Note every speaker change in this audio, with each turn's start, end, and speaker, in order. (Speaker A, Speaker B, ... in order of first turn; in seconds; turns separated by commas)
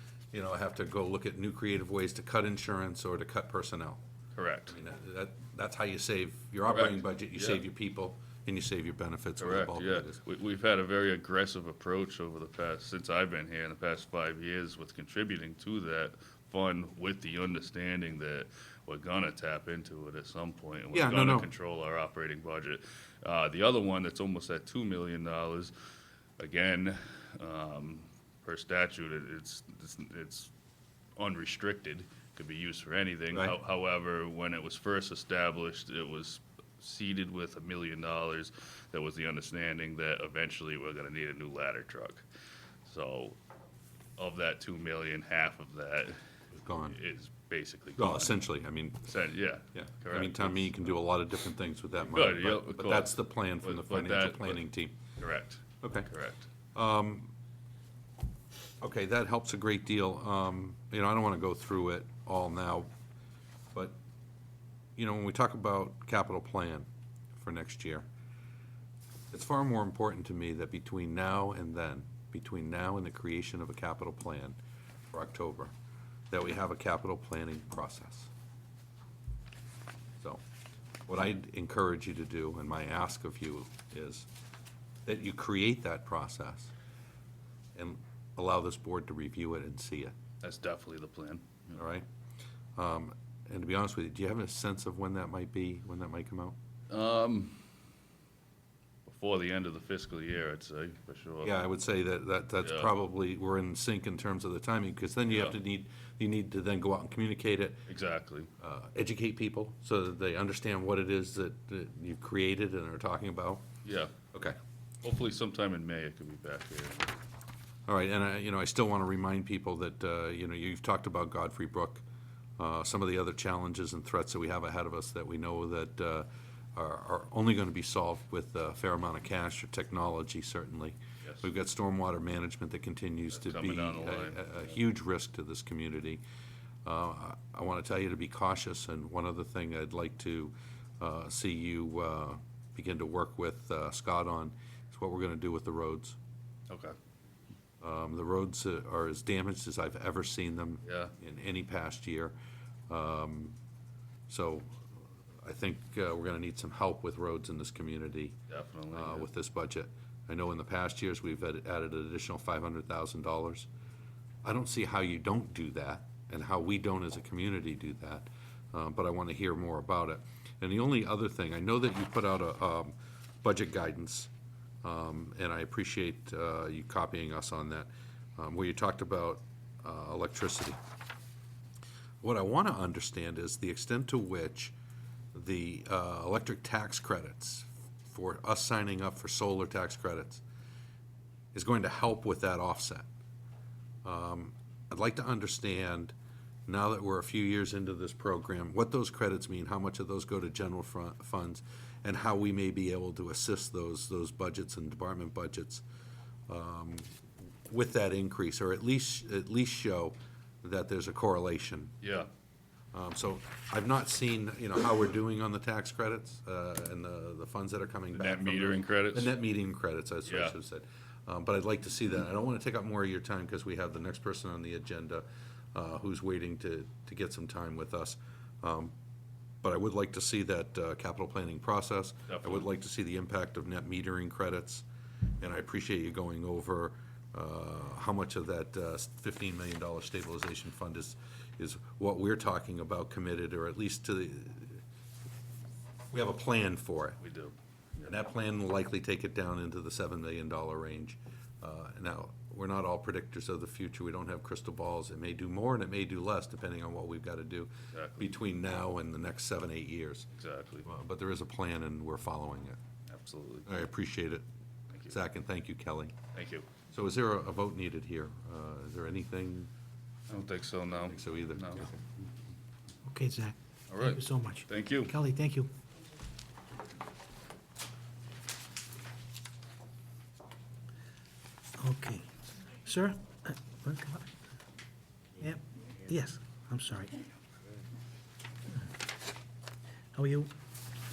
Speaker A: 0.3-4.0, Speaker B: 4.3-4.8, Speaker A: 4.7-10.2, Speaker B: 6.7-7.6, Speaker B: 9.4-25.7, Speaker A: 20.9-21.5, Speaker B: 26.4-30.5, Speaker B: 31.1-42.2, Speaker B: 42.8-43.4, Speaker B: 44.2-46.2, Speaker A: 46.5-47.0, Speaker B: 46.9-48.4, Speaker A: 48.0-49.1, Speaker B: 49.1-50.8, Speaker A: 49.7-55.0, Speaker B: 52.1-54.6, Speaker B: 55.2-56.5, Speaker A: 55.8-56.1, Speaker A: 56.7-57.3, Speaker A: 58.8-62.9, Speaker A: 65.0-68.1, Speaker A: 69.3-74.6, Speaker A: 75.1-75.7, Speaker A: 76.3-78.3, Speaker A: 81.1-84.3, Speaker A: 85.0-86.7, Speaker A: 87.7-90.1, Speaker B: 90.4-91.8, Speaker A: 91.7-92.0, Speaker A: 92.8-96.5, Speaker B: 96.9-97.6, Speaker B: 99.0-101.5, Speaker A: 101.4-107.8, Speaker B: 102.6-102.9, Speaker B: 105.3-105.5, Speaker B: 107.9-108.5, Speaker A: 108.6-113.6, Speaker B: 113.8-114.1, Speaker B: 115.0-117.1, Speaker A: 117.9-122.0, Speaker A: 122.6-136.2, Speaker B: 133.3-134.5, Speaker A: 136.8-146.2, Speaker B: 146.7-146.9, Speaker A: 147.8-152.3, Speaker B: 150.8-151.1, Speaker A: 152.9-153.6, Speaker A: 154.3-154.8, Speaker A: 155.4-158.3, Speaker B: 158.5-159.3, Speaker A: 158.9-163.7, Speaker A: 164.4-174.3, Speaker A: 174.8-180.8, Speaker A: 182.2-184.7, Speaker A: 185.3-190.4, Speaker A: 191.5-193.1, Speaker A: 194.0-196.1, Speaker A: 196.7-205.8, Speaker A: 206.5-207.1, Speaker A: 207.7-211.9, Speaker B: 212.0-212.3, Speaker A: 212.9-228.9, Speaker B: 218.1-219.3, Speaker B: 220.2-220.6, Speaker A: 229.6-234.8, Speaker B: 232.3-232.7, Speaker A: 235.4-244.8, Speaker A: 246.1-247.2, Speaker B: 247.2-247.5, Speaker A: 248.0-260.3, Speaker B: 257.9-258.3, Speaker B: 260.3-260.9, Speaker A: 260.8-262.8, Speaker B: 263.1-263.7, Speaker A: 263.6-264.4, Speaker A: 265.1-266.1, Speaker B: 266.3-266.7, Speaker A: 266.9-269.7, Speaker B: 270.3-271.9, Speaker A: 271.1-271.9, Speaker C: 273.1-275.7, Speaker B: 273.9-275.1, Speaker C: 281.8-284.3, Speaker C: 285.4-287.1, Speaker C: 290.1-290.5